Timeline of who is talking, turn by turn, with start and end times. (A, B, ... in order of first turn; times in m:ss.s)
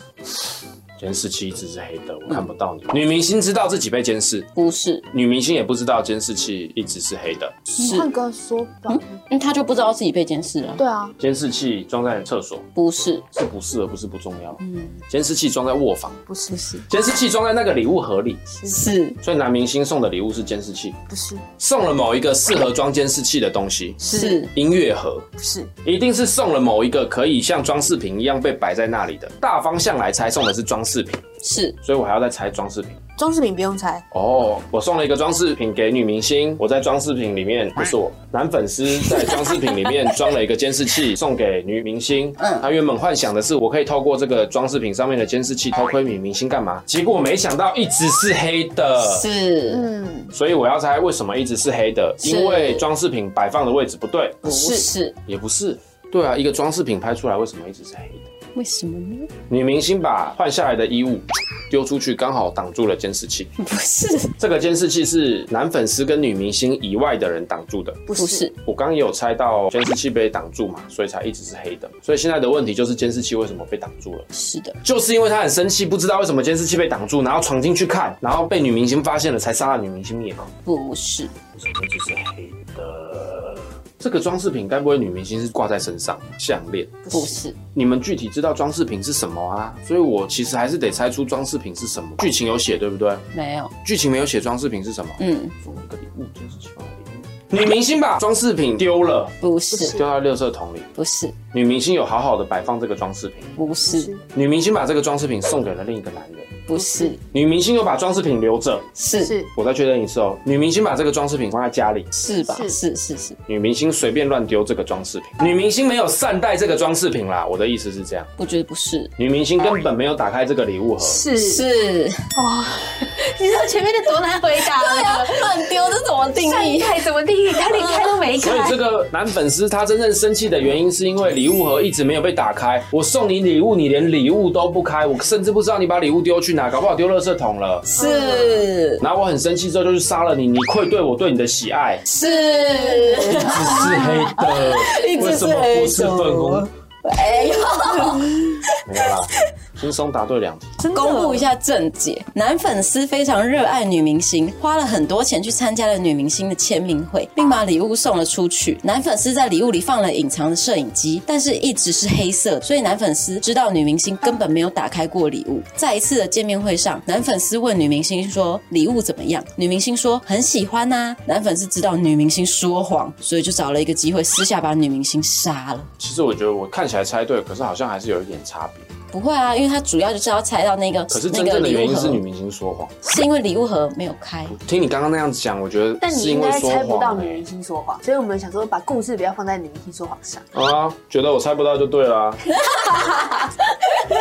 0:01.0-0:04.5 A
0:04.6-0:05.0 B
0:05.1-0:07.6 A
0:07.7-0:09.2 C
0:07.8-0:08.1 B
0:08.9-0:10.8 B
0:10.8-0:11.1 C
0:11.2-0:12.6 A
0:12.7-0:13.2 B
0:13.3-0:16.2 A
0:14.6-0:15.0 B
0:16.3-0:16.8 C
0:16.9-0:18.4 A
0:18.5-0:18.8 C
0:18.7-0:19.2 B
0:19.2-0:21.0 A
0:21.1-0:21.4 C
0:21.6-0:25.3 A
0:24.0-0:24.4 C
0:24.1-0:24.5 B
0:25.4-0:25.7 C
0:25.8-0:31.2 A
0:31.4-0:31.8 B
0:31.8-0:33.0 A
0:33.2-0:34.0 C
0:34.1-0:49.2 A
0:42.4-0:42.7 B
0:49.0-0:49.9 B
0:49.7-0:50.3 C
0:50.3-0:54.5 A
0:52.2-0:52.8 B
0:54.4-0:54.9 C
0:54.4-0:55.2 B
0:55.3-0:58.3 A
0:58.5-0:59.3 B
0:59.5-1:03.5 A
1:03.6-1:04.3 B
1:04.4-1:08.0 A
1:08.1-1:08.5 C
1:08.2-1:08.5 B
1:08.6-1:14.3 A
1:14.3-1:14.8 B
1:14.8-1:20.5 A
1:20.6-1:21.3 B
1:21.5-1:27.1 A
1:27.0-1:27.3 C
1:27.1-1:27.6 B
1:27.7-1:33.2 A
1:33.3-1:33.7 B
1:33.8-1:39.3 A
1:35.2-1:35.6 B
1:39.4-1:40.0 B
1:39.7-1:40.0 C
1:39.9-1:40.9 A
1:40.9-1:41.3 B
1:41.5-1:43.6 A
1:43.6-1:44.1 B
1:43.8-1:44.2 C
1:44.3-1:46.6 A
1:46.7-1:47.2 B
1:46.7-1:47.2 C
1:47.2-1:48.9 A
1:49.0-1:49.3 B
1:49.2-1:49.5 C
1:49.5-1:52.1 A
1:52.1-1:53.4 B
1:52.4-1:52.8 C
1:53.5-1:58.3 A
1:58.4-1:59.1 B
1:59.2-2:01.2 A
2:01.0-2:01.6 C
2:01.4-2:02.3 B
2:02.3-2:08.8 C
2:04.6-2:08.2 B
2:08.4-2:17.9 A
2:17.9-2:19.0 B
2:18.0-2:18.7 C
2:19.0-2:22.0 A
2:22.0-2:29.4 B
2:22.9-2:23.6 C
2:23.3-2:26.7 A
2:28.8-2:30.8 A
2:30.8-2:31.5 C
2:30.9-2:55.9 B
2:56.0-2:58.9 A
2:59.1-3:02.2 B
3:01.1-3:02.9 A
3:03.0-3:04.6 B
3:04.5-3:07.4 A
3:06.0-3:10.4 C
3:10.5-3:12.4 A
3:12.9-3:13.3 B